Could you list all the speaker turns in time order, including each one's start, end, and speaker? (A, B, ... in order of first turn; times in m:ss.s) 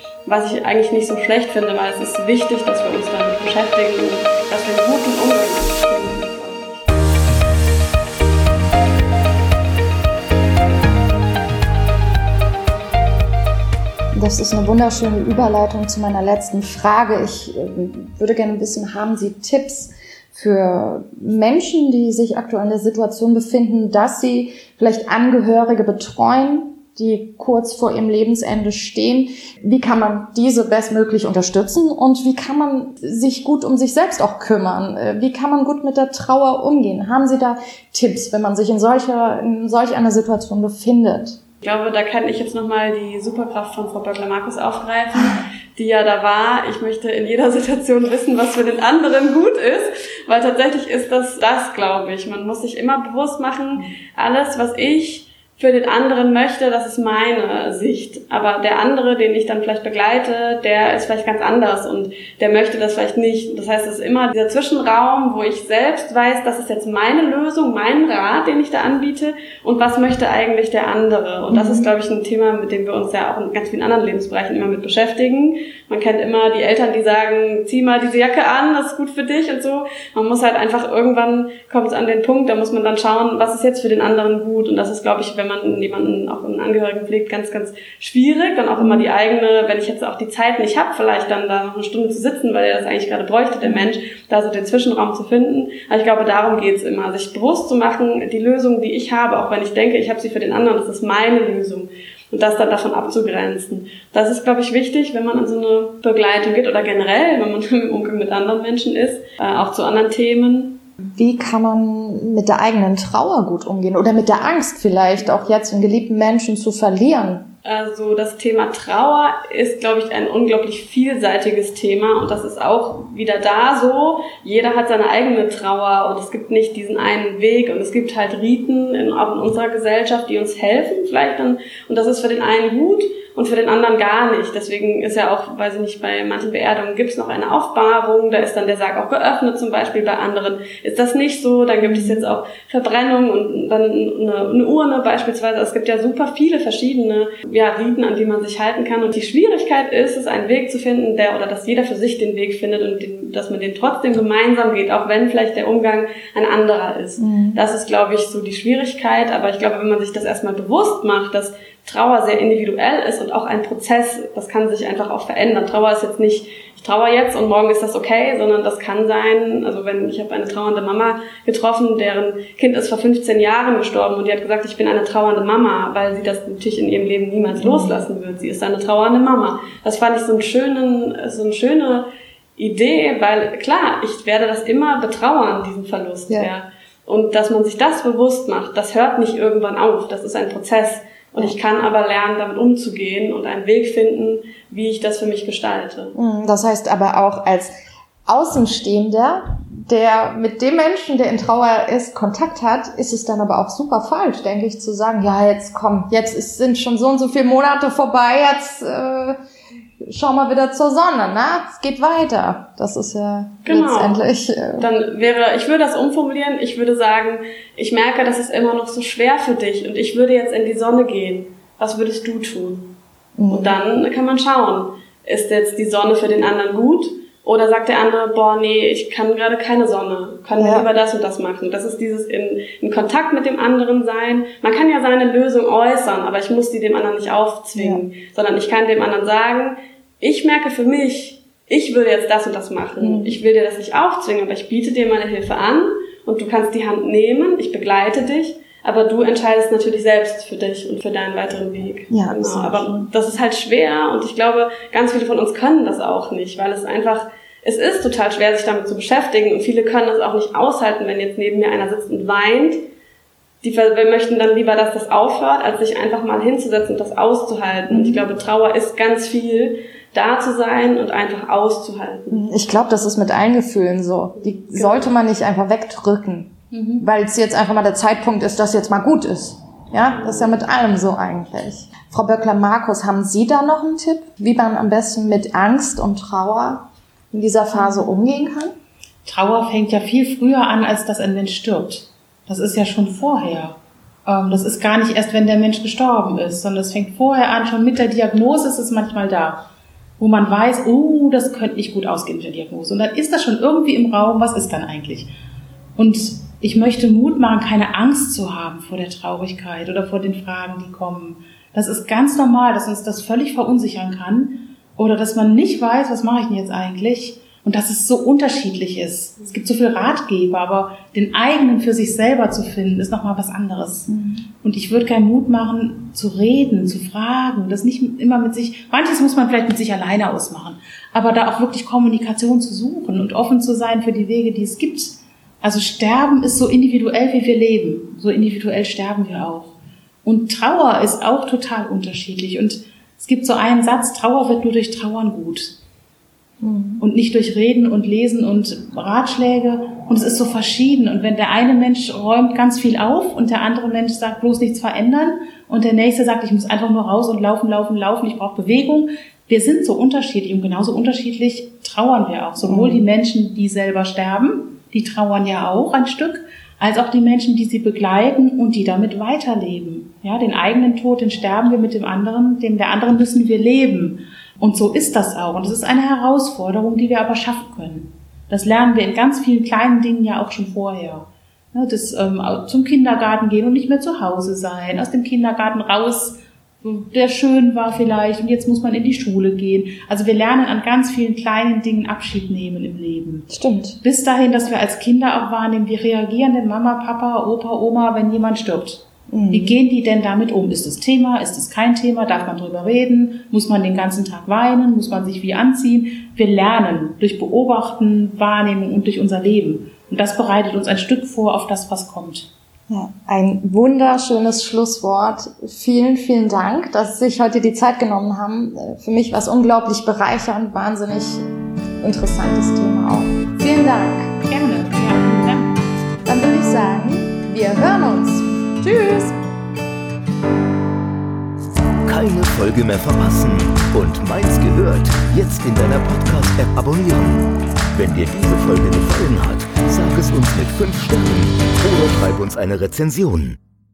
0:00.3-0:06.9 A
0:14.1-0:41.4 B
0:41.6-1:50.8 A
1:11.5-1:11.9 B
1:28.8-1:29.1 B
1:51.1-1:57.5 B
1:57.6-3:16.2 A
2:21.8-2:22.2 B
2:37.2-2:37.6 B
2:57.6-2:58.0 B
3:16.2-3:17.7 B
3:18.3-3:29.4 B
3:30.0-3:34.9 B
3:33.6-3:34.2 A
3:34.8-3:42.9 A
3:43.4-3:43.8 B
3:43.5-4:22.8 A
3:50.6-3:50.9 B
3:57.8-3:58.0 B
4:03.0-4:03.4 B
4:12.1-4:13.1 B
4:23.6-4:32.4 A
4:27.9-4:28.3 B
4:32.3-4:48.7 B
4:34.4-4:35.1 A
4:36.7-4:37.0 C
4:40.2-4:40.5 A
4:47.7-4:48.2 C
4:49.3-4:59.6 C
5:00.2-5:05.3 C
5:06.0-5:24.1 C
5:24.1-5:24.4 B
5:24.6-5:45.8 C
5:46.6-5:47.0 B
5:47.0-6:33.5 C
6:02.6-6:03.0 B
6:33.5-6:34.0 B
6:34.0-6:52.5 C
6:39.3-6:39.8 B
6:52.9-7:01.4 B
7:02.0-7:04.4 B
7:04.5-7:05.8 C
7:06.2-7:09.4 B
7:12.0-7:23.6 D